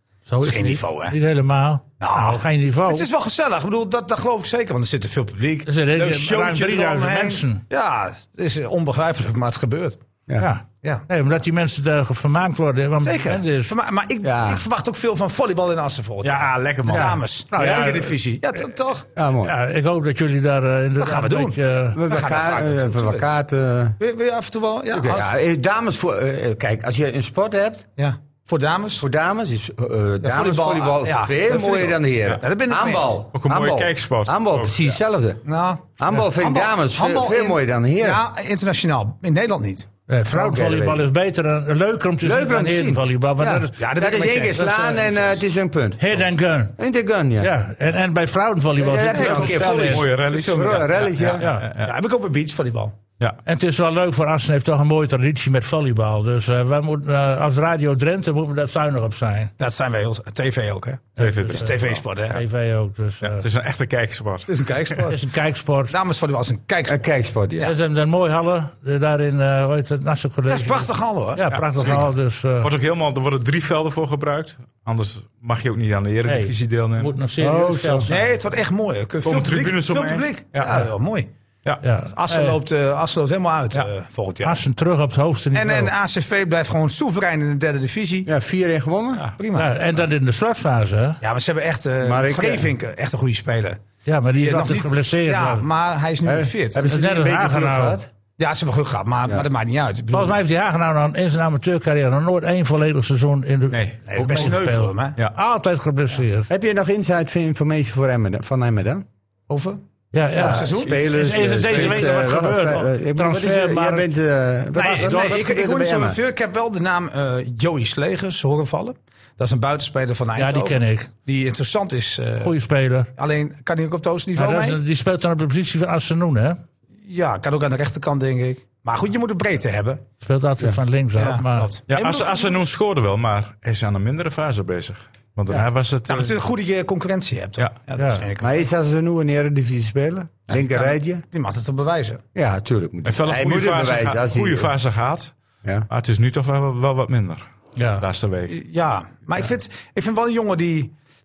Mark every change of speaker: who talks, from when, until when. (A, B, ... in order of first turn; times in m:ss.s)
0:00.3-0:03.1 A
0:00.4-0:01.2 B
0:02.0-0:10.0 B
0:05.7-0:07.6 A
0:10.4-0:13.7 A
0:13.0-0:19.1 B
0:14.2-0:14.6 C
0:16.2-0:17.2 D
0:16.9-0:18.2 A
0:17.6-0:17.9 C
0:19.2-0:19.6 C
0:19.4-0:22.0 A
0:21.0-0:23.3 B
0:21.9-0:24.0 C
0:24.0-0:25.3 B
0:24.9-0:27.9 C
0:28.0-0:29.0 B
0:29.0-0:35.5 C
0:30.2-0:33.2 B
0:33.3-0:34.7 D
0:35.4-0:39.9 B
0:36.0-0:38.2 C
0:40.1-0:43.8 A
0:40.3-0:41.1 C
0:42.2-0:47.5 C
0:43.8-0:45.0 B
0:44.5-0:45.0 A
0:46.0-0:46.8 A
0:47.4-0:50.0 A
0:48.8-0:51.4 C
0:49.0-0:50.1 B
0:49.5-0:51.9 D
0:51.4-0:51.7 A
0:51.8-0:53.0 B
0:53.4-0:59.5 A
0:59.6-1:02.4 B
1:01.2-1:03.5 A
1:01.2-1:02.0 D
1:03.2-1:05.1 D
1:04.5-1:05.2 B
1:05.0-1:05.9 A
1:05.9-1:07.0 B
1:06.9-1:07.7 C
1:07.6-1:12.7 A
1:10.5-1:12.0 B
1:11.6-1:12.1 D
1:12.6-1:17.1 D
1:16.2-1:18.3 A
1:17.4-1:18.1 C
1:18.1-1:21.3 B
1:19.2-1:20.9 D
1:21.8-1:22.6 A
1:22.1-1:24.6 B
1:24.4-1:25.9 A
1:25.5-1:28.3 B
1:28.2-1:29.3 C
1:29.4-1:29.7 B
1:29.5-1:31.2 A
1:31.2-1:33.8 B
1:32.0-1:32.7 C
1:34.0-1:35.6 A
1:34.3-1:36.8 B
1:36.2-1:38.1 C
1:36.8-1:38.0 A
1:38.4-1:40.4 B
1:40.1-1:46.5 A
1:43.7-1:44.6 D
1:44.1-1:45.2 B
1:46.5-1:49.1 C
1:49.5-1:49.8 B
1:50.1-1:54.1 A
1:50.4-1:56.2 C
1:50.4-1:50.9 B
1:50.8-1:52.1 D
1:54.7-2:02.5 B
1:54.8-1:55.4 A
2:00.4-2:01.1 A
2:02.4-2:03.1 A
2:03.2-2:04.8 B
2:04.4-2:06.6 A
2:07.0-2:10.0 B
2:10.2-2:11.7 A
2:11.2-2:12.6 B
2:11.9-2:16.3 D
2:16.1-2:18.7 B
2:18.0-2:18.3 A
2:18.4-2:21.2 C
2:20.5-2:22.2 B
2:22.4-2:24.7 C
2:23.0-2:25.3 D
2:25.9-2:27.4 D
2:27.8-2:28.0 A
2:28.0-2:28.6 D
2:28.5-2:30.9 B